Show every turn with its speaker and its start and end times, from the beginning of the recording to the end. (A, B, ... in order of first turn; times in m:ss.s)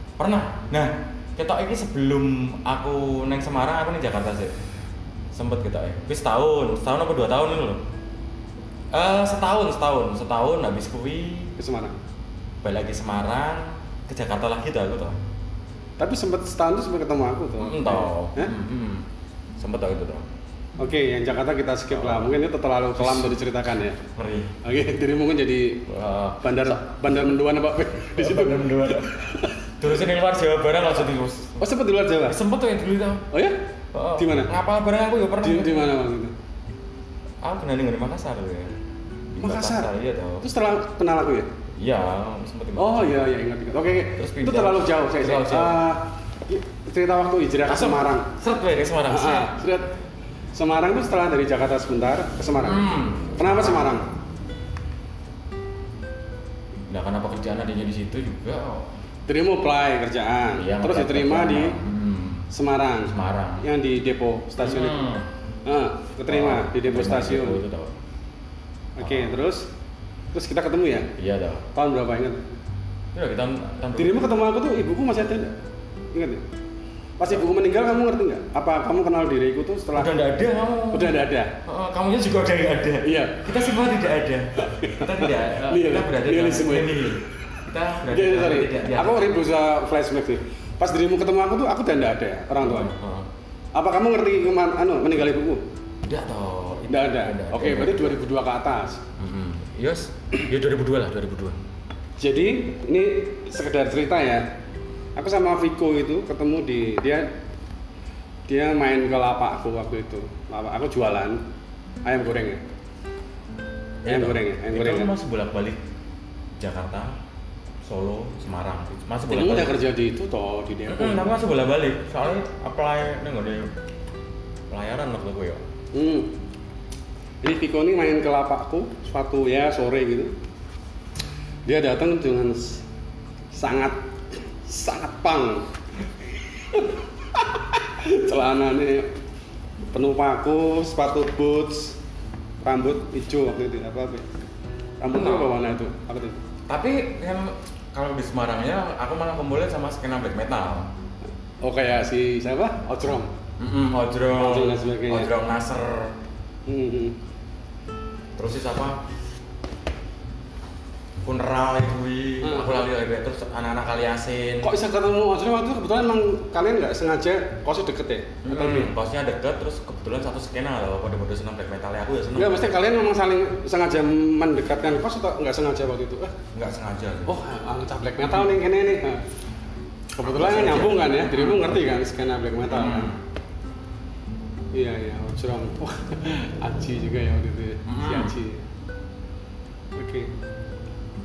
0:00.2-0:04.5 A
0:05.3-0:07.8 A
0:08.9-0:11.5 A
0:11.6-0:12.0 B
0:12.6-0:15.2 A
0:16.0-0:18.5 B
0:17.6-0:19.1 A
0:19.6-0:20.3 A
0:20.8-0:24.0 B
0:21.9-0:22.4 A
0:23.0-0:23.4 A
0:24.1-0:24.6 A
0:24.6-0:29.6 B
0:25.9-0:26.8 A
0:28.1-0:31.6 A
0:31.6-0:32.4 B
0:32.2-0:33.3 A
0:33.3-0:33.6 B
0:33.9-0:35.9 A
0:34.2-0:34.5 B
0:35.4-0:36.3 B
0:37.4-0:38.8 A
0:39.3-0:40.4 A
0:39.4-0:41.5 B
0:41.8-0:43.1 A
0:42.8-0:48.3 B
0:44.1-0:45.8 A
0:47.6-0:49.6 A
0:49.1-0:49.9 B
0:50.5-0:54.1 B
0:52.6-0:54.0 A
0:56.9-0:58.9 A
0:59.3-1:01.8 B
1:00.5-1:02.5 A
1:02.5-1:05.0 B
1:03.0-1:03.6 A
1:04.6-1:05.3 A
1:05.6-1:07.6 B
1:06.3-1:07.9 A
1:09.0-1:09.7 B
1:09.0-1:09.4 A
1:10.3-1:11.1 B
1:11.2-1:11.6 A
1:11.7-1:12.4 B
1:13.1-1:14.2 A
1:14.0-1:15.6 B
1:16.1-1:16.4 B
1:17.2-1:20.1 B
1:19.9-1:29.4 A
1:20.9-1:21.6 B
1:23.0-1:23.6 B
1:24.6-1:27.4 B
1:28.1-1:32.9 B
1:32.6-1:33.3 A
1:33.7-1:35.6 B
1:36.0-1:38.2 A
1:36.9-1:39.0 B
1:39.2-1:41.6 A
1:42.2-1:44.5 B
1:45.2-1:47.3 B
1:48.5-1:51.4 B
1:52.0-1:52.6 B
1:54.0-1:55.8 A
1:54.1-1:55.1 B
1:56.6-1:57.2 A
1:57.8-1:59.8 A
1:59.3-2:01.3 B
2:00.9-2:03.7 A
2:04.7-2:05.6 A
2:05.9-2:06.3 B
2:07.4-2:10.3 B
2:11.6-2:12.8 B
2:13.5-2:15.7 B
2:16.6-2:19.1 B
2:19.9-2:22.0 B
2:22.6-2:24.3 B
2:25.0-2:26.4 B
2:25.1-2:25.6 A
2:26.7-2:30.9 A
2:31.6-2:33.3 B
2:33.6-2:36.2 A
2:34.3-2:35.3 B
2:36.7-2:37.2 B
2:38.4-2:39.0 A
2:41.2-2:44.7 A
2:42.4-2:42.8 B
2:44.6-2:48.9 B
2:48.4-2:52.7 A
2:52.3-2:56.3 B
2:56.5-2:57.4 A
2:57.2-2:59.2 B
3:00.2-3:03.1 B
3:00.2-3:01.8 A
3:02.7-3:03.2 A
3:04.7-3:08.6 B
3:07.8-3:08.3 A
3:09.9-3:10.3 B